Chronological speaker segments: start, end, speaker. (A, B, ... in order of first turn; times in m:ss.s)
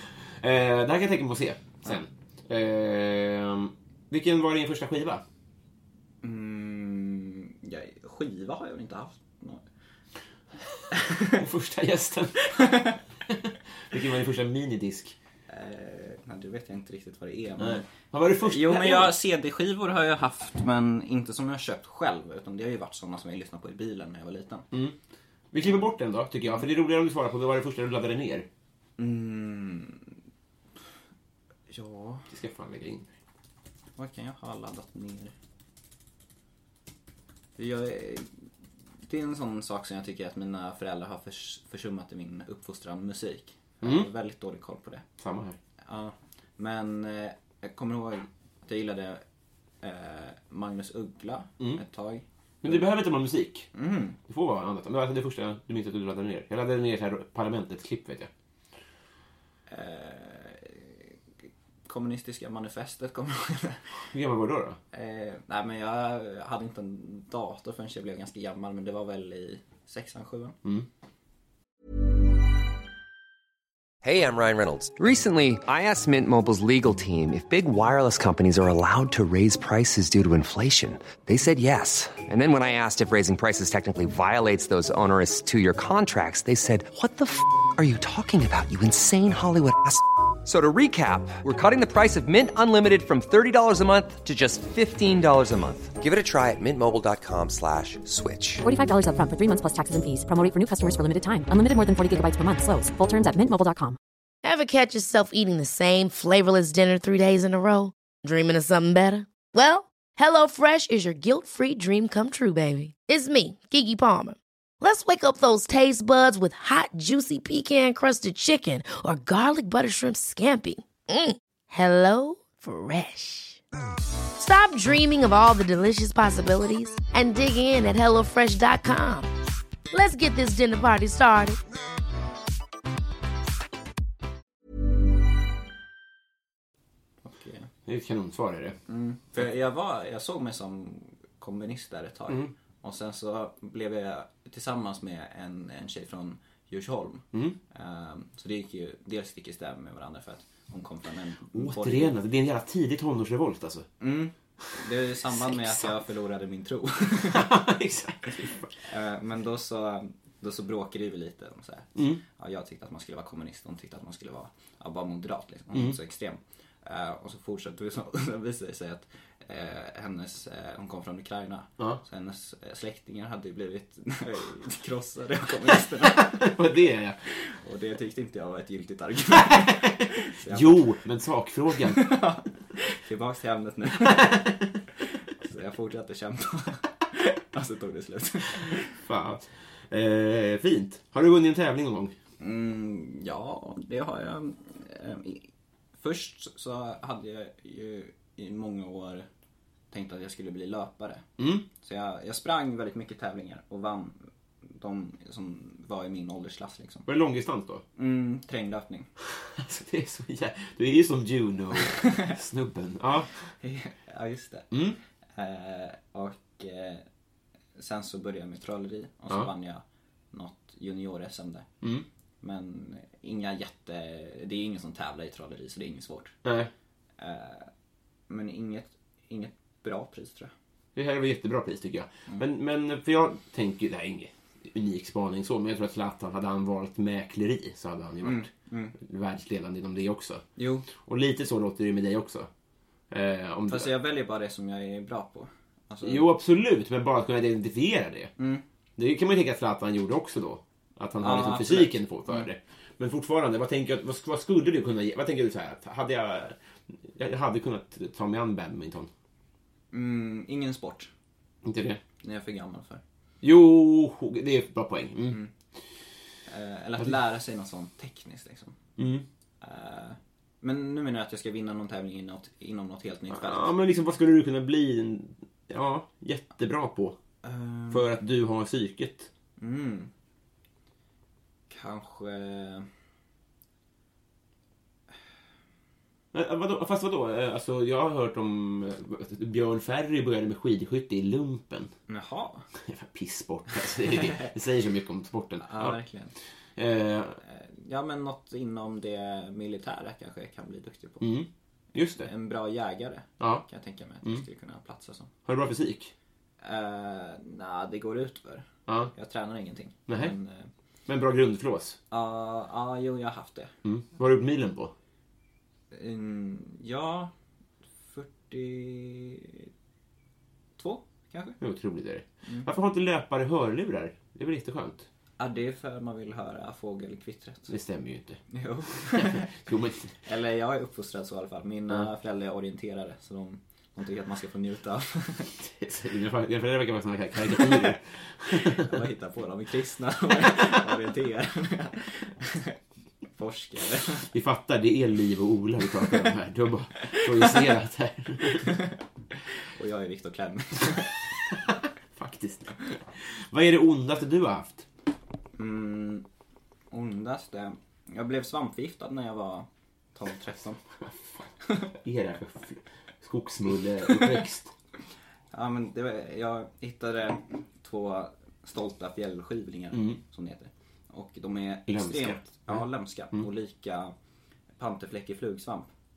0:00.4-0:05.2 A
0:06.2-0:09.6 B
0:10.9-0:11.4 B
0:11.3-0:15.1 A
0:15.5-0:24.7 B
0:17.6-0:19.1 A
0:25.5-0:28.5 A
0:29.0-0:30.1 B
0:31.7-0:32.2 B
0:32.3-0:33.1 A
0:34.0-0:35.3 B
0:37.6-0:38.4 B
0:39.0-0:45.0 B
0:43.8-0:44.1 A
0:45.2-0:45.6 A
0:45.8-0:49.2 B
0:49.8-0:52.9 B
0:52.6-0:53.7 A
0:53.7-0:54.2 B
0:54.2-0:58.3 A
0:59.7-1:01.1 B
1:01.8-1:04.0 B
1:04.1-1:04.8 A
1:04.9-1:10.6 B
1:14.0-1:38.6 C
1:38.6-1:44.0 D
1:44.4-2:03.6 E
2:04.4-2:09.3 E
2:09.9-2:11.6 E
2:17.2-2:17.7 B
2:17.8-2:18.8 A
2:18.9-2:32.2 B
2:31.5-2:33.9 A
2:34.0-2:37.6 B
2:35.3-2:35.8 A
2:37.2-2:38.7 A
2:38.8-2:56.6 B
2:42.0-2:42.2 A
2:45.7-2:46.0 A
2:56.0-2:57.3 A
2:57.3-3:00.9 B
2:59.4-3:02.1 A
3:01.8-3:09.0 B
3:04.1-3:04.5 A
3:08.9-3:12.1 A
3:12.4-3:19.3 B
3:19.9-3:27.1 B
3:21.4-3:21.6 A
3:27.0-3:27.8 A
3:28.0-3:29.1 B
3:29.4-3:33.3 A
3:31.9-3:32.3 B
3:33.6-3:34.7 B
3:34.7-3:35.0 A
3:35.4-3:37.0 B
3:37.8-3:41.7 B
3:42.4-3:46.4 B
3:46.4-3:46.7 A
3:47.2-3:47.7 B
3:48.3-3:50.5 B
3:50.9-4:02.5 A
3:58.2-3:59.0 B
4:00.6-4:00.9 B
4:03.1-4:03.9 A
4:03.7-4:06.3 B
4:06.0-4:08.3 A
4:08.4-4:08.6 B
4:09.0-4:19.1 A
4:11.2-4:12.5 B
4:19.9-4:21.1 B
4:21.6-4:22.0 A
4:22.2-4:23.0 B
4:23.4-4:25.4 A
4:26.5-4:28.8 B
4:29.0-4:29.2 A
4:29.6-4:33.7 B
4:33.3-4:37.2 A
4:37.4-4:38.1 B
4:37.9-4:39.3 A
4:39.6-4:40.1 B
4:41.7-4:42.9 B
4:46.3-4:51.9 A
4:52.1-4:52.7 B
4:52.8-4:56.0 A
4:54.0-4:54.5 B
4:55.6-4:56.3 B
4:56.8-4:57.4 A
4:57.4-5:01.4 B
5:01.2-5:02.3 A
5:02.2-5:05.3 B
5:03.4-5:03.6 A
5:05.4-5:06.1 A
5:06.6-5:10.7 B
5:10.1-5:10.3 A
5:11.1-5:12.0 A
5:12.1-5:13.7 B
5:13.8-5:14.9 A
5:15.9-5:17.3 B
5:18.1-5:19.7 B
5:20.8-5:21.6 B
5:21.6-5:25.1 A
5:25.4-5:27.7 B
5:27.7-5:28.4 A
5:28.5-5:29.5 B
5:29.0-5:30.2 A
5:30.2-5:35.5 B
5:35.6-5:38.9 A
5:38.5-5:42.8 B
5:43.3-5:44.3 B
5:44.3-5:48.7 A
5:47.0-5:47.5 B
5:48.6-5:49.0 B
5:49.6-5:51.3 B
5:52.1-5:54.8 A
5:55.6-5:56.2 B
5:56.9-6:00.8 B
6:01.0-6:04.7 A
6:05.5-6:14.1 B
6:11.9-6:12.8 A
6:14.8-6:15.9 B